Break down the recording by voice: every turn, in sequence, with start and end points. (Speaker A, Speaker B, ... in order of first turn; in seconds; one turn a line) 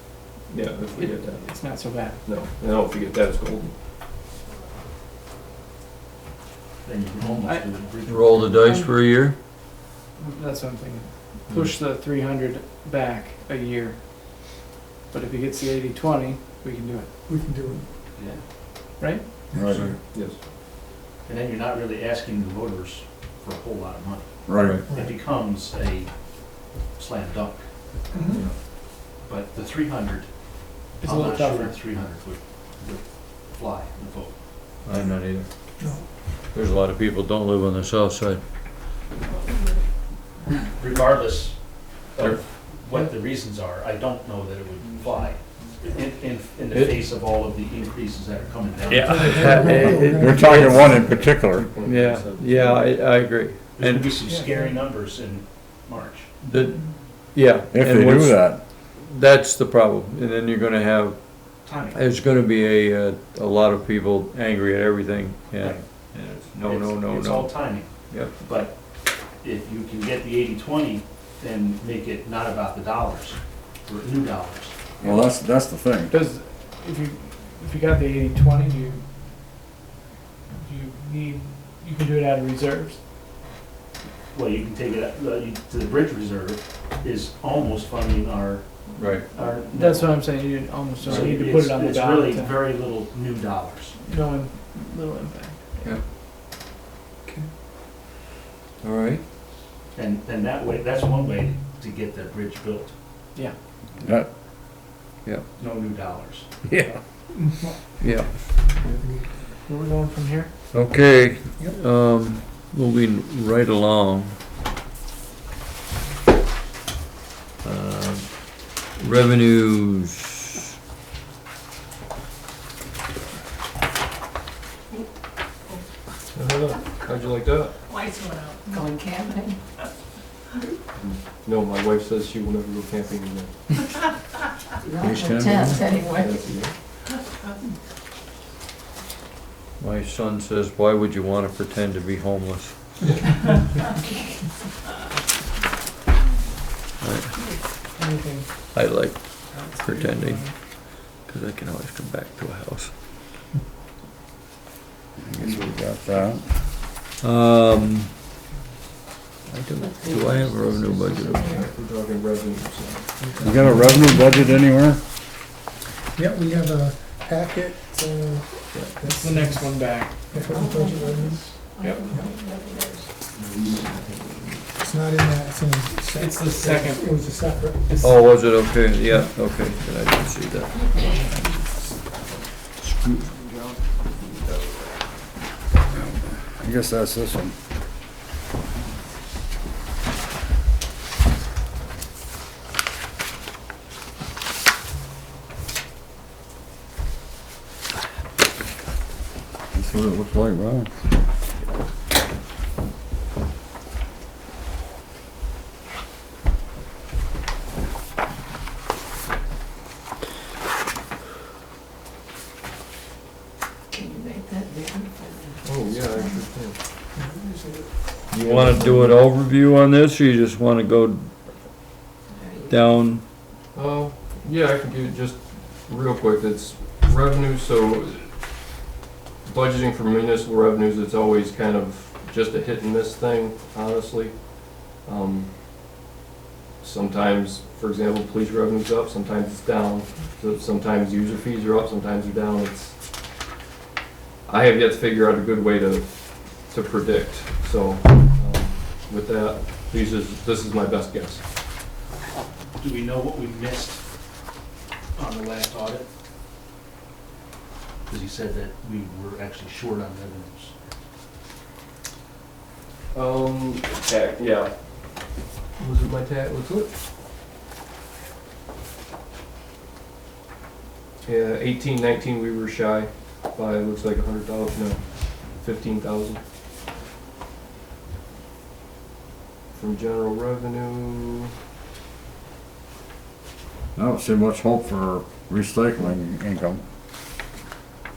Speaker A: 0.5-1.4
Speaker B: 0.9-2.2
Speaker A: 2.2-3.7
Speaker C: 6.8-8.6
Speaker B: 7.4-7.7
Speaker D: 8.1-9.4
Speaker B: 10.2-14.0
Speaker B: 15.1-17.1
Speaker E: 17.3-17.9
Speaker C: 18.2-18.4
Speaker B: 19.0-19.3
Speaker F: 19.6-19.9
Speaker A: 20.0-20.4
Speaker C: 21.2-27.7
Speaker F: 24.5-24.8
Speaker E: 24.6-25.2
Speaker E: 28.1-28.4
Speaker C: 29.2-34.4
Speaker B: 31.0-31.8
Speaker D: 34.8-35.7
Speaker E: 35.8-36.1
Speaker D: 36.4-38.4
Speaker C: 40.8-49.7
Speaker A: 44.8-45.8
Speaker D: 46.7-47.1
Speaker D: 48.8-51.0
Speaker E: 49.0-51.0
Speaker F: 50.1-51.7
Speaker A: 50.7-52.8
Speaker D: 51.8-54.1
Speaker C: 53.8-56.3
Speaker B: 54.3-54.8
Speaker D: 56.4-68.4
Speaker F: 57.7-58.6
Speaker C: 61.6-62.0
Speaker C: 65.6-74.9
Speaker F: 75.0-76.2
Speaker B: 76.1-79.0
Speaker B: 80.6-83.0
Speaker C: 84.3-94.0
Speaker D: 89.0-89.3
Speaker B: 89.7-92.7
Speaker B: 94.0-95.8
Speaker D: 98.8-99.2
Speaker C: 99.9-102.9
Speaker F: 104.0-104.3
Speaker C: 105.6-106.5
Speaker E: 107.3-107.8
Speaker D: 108.0-108.4
Speaker E: 108.8-109.2
Speaker B: 109.7-110.5
Speaker D: 110.7-114.4
Speaker D: 117.6-118.3
Speaker D: 118.9-120.5
Speaker A: 126.3-127.7
Speaker G: 128.0-129.6
Speaker A: 131.0-133.6
Speaker F: 135.0-135.8
Speaker A: 135.8-136.8
Speaker D: 139.8-142.9
Speaker D: 147.0-147.4
Speaker B: 147.4-148.7
Speaker D: 148.7-152.9
Speaker B: 149.5-150.5
Speaker F: 155.2-156.6
Speaker D: 155.4-155.7
Speaker D: 157.2-158.1
Speaker D: 159.4-161.4
Speaker G: 160.0-160.4
Speaker A: 161.1-163.1
Speaker E: 163.2-164.3
Speaker F: 163.4-165.0
Speaker E: 166.2-169.8
Speaker B: 169.1-170.2
Speaker E: 170.3-172.3
Speaker G: 170.5-173.1
Speaker B: 171.8-172.1
Speaker A: 173.4-174.6
Speaker E: 174.8-178.0
Speaker B: 176.2-177.1
Speaker B: 177.9-178.2
Speaker D: 178.0-180.9
Speaker D: 182.8-183.7
Speaker A: 184.2-184.7
Speaker F: 185.9-187.6
Speaker F: 199.7-200.9
Speaker G: 213.9-215.6
Speaker A: 215.6-216.8
Speaker E: 217.2-217.7
Speaker D: 218.3-221.5
Speaker A: 218.4-219.1
Speaker D: 222.7-223.2
Speaker A: 223.7-228.6
Speaker A: 229.4-235.5
Speaker A: 236.8-243.0
Speaker A: 244.5-251.4
Speaker C: 252.8-254.0
Speaker C: 255.2-256.1
Speaker C: 258.1-260.7
Speaker A: 263.1-267.0
Speaker A: 271.2-276.4
Speaker A: 279.7-281.5
Speaker F: 284.0-286.8